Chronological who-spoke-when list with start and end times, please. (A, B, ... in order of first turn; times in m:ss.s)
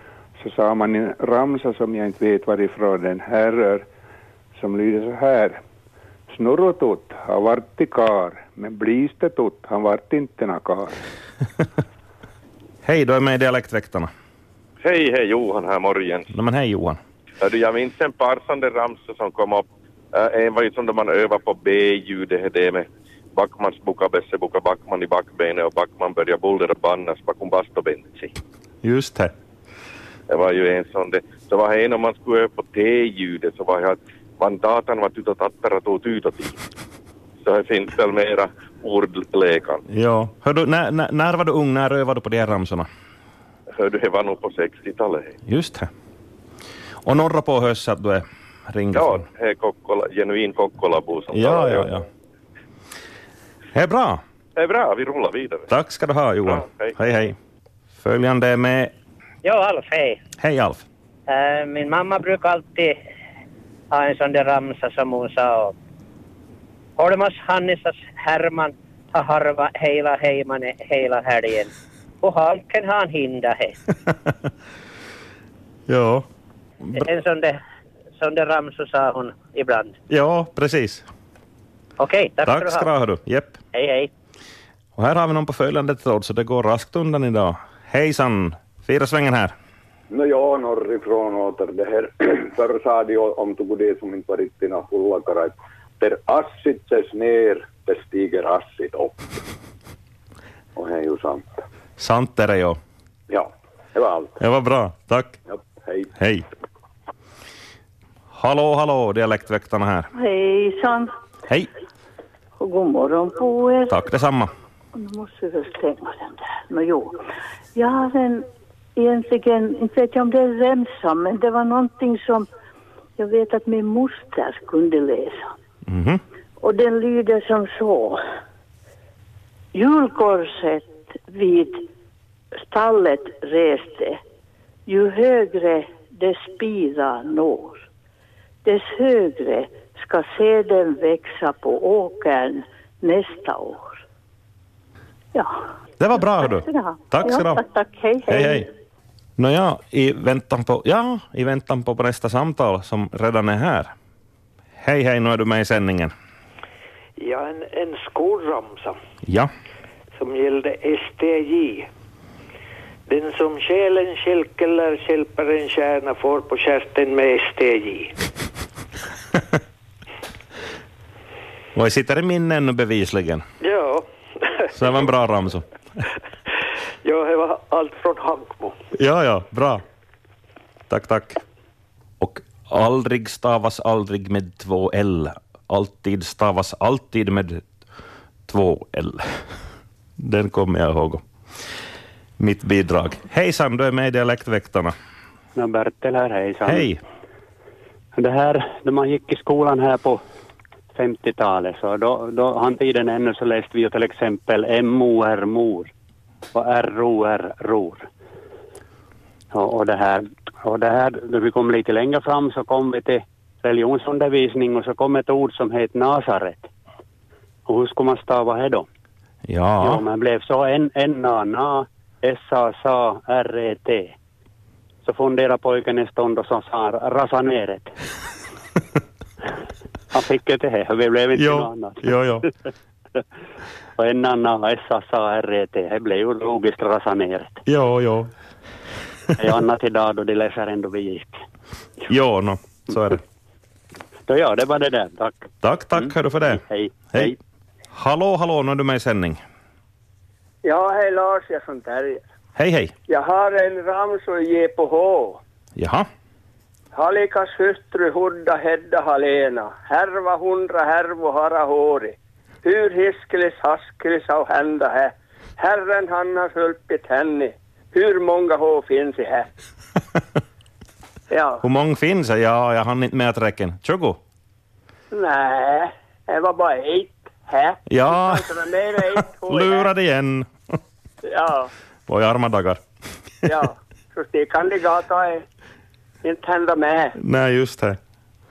0:00.4-0:03.9 A
0:04.5-0:05.6 A
0:06.3-0:10.9 A
0:12.8-0:14.1 B
0:14.8-0:16.3 C
0:16.3-0:17.0 B
0:17.4-0:28.3 C
0:28.8-0:29.3 B
0:30.3-0:36.6 C
0:37.4-0:39.8 C
0:39.9-0:42.9 B
0:43.7-0:45.4 C
0:45.4-0:45.9 B
0:47.0-0:49.2 B
0:48.9-0:51.9 C
0:51.3-0:52.0 B
0:53.7-0:54.2 B
0:54.6-0:55.7 C
0:55.7-0:57.4 B
0:56.5-0:56.9 C
0:58.0-0:58.9 B
0:59.4-1:00.2 D
1:00.4-1:00.8 B
1:01.3-1:03.0 D
1:03.9-1:05.7 D
1:07.0-1:13.7 D
1:15.9-1:16.2 B
1:16.9-1:17.6 D
1:18.2-1:20.0 D
1:20.1-1:21.0 B
1:22.0-1:22.9 D
1:22.4-1:23.6 B
1:23.7-1:24.1 D
1:25.0-1:29.5 B
1:30.1-1:39.2 E
1:40.8-1:41.6 E
1:42.0-1:42.8 B
1:43.3-1:44.3 E
1:44.4-1:45.4 B
1:45.5-1:46.1 E
1:46.2-1:46.4 B
1:48.3-1:50.1 B
1:50.1-1:51.1 F
1:52.6-1:54.0 F
1:53.9-1:54.5 B
1:54.9-1:57.2 F
1:57.7-2:02.5 F
2:03.2-2:05.5 F
2:05.9-2:06.2 B
2:06.6-2:08.2 F
2:09.7-2:11.9 F
2:12.6-2:14.2 F
2:14.8-2:17.8 F
2:18.6-2:24.0 F
2:25.3-2:25.6 F
2:26.0-2:27.6 B
2:26.2-2:28.7 F
2:28.3-2:28.7 B
2:29.4-2:33.9 B
2:34.8-2:36.1 B
2:37.2-2:39.0 G
2:39.2-2:39.5 B
2:40.1-2:41.9 G
2:43.1-2:48.1 G
2:51.7-2:53.4 B
2:53.6-2:55.1 G
2:54.7-2:55.6 B
2:57.0-2:58.7 G
2:58.9-2:59.8 B
3:00.9-3:01.4 B
3:02.2-3:07.6 B
3:08.5-3:09.4 B
3:10.2-3:11.2 B
3:12.4-3:14.9 B
3:15.6-3:16.9 H
3:16.6-3:17.0 B
3:18.1-3:20.2 H
3:20.9-3:25.9 H
3:26.5-3:28.1 H
3:29.5-3:36.7 H
3:37.6-3:38.9 H
3:39.5-3:40.0 B
3:39.8-3:44.1 H
3:45.0-3:47.9 H
3:50.1-3:52.1 H
3:51.3-3:52.4 B
3:54.0-3:57.6 H
3:57.6-3:58.3 B
3:59.4-4:01.4 H
4:02.1-4:03.2 B
4:04.3-4:07.4 H
4:05.6-4:06.6 B
4:07.9-4:09.4 B
4:10.6-4:12.2 I
4:12.6-4:12.9 B
4:13.1-4:15.4 I
4:15.8-4:16.1 B
4:16.9-4:29.4 I
4:31.3-4:31.6 I
4:31.6-4:34.2 B
4:35.1-4:39.9 I
4:37.9-4:40.5 B
4:41.2-4:41.7 I
4:42.1-4:42.8 B
4:43.4-4:45.4 I
4:46.2-4:47.1 I
4:47.2-4:48.0 B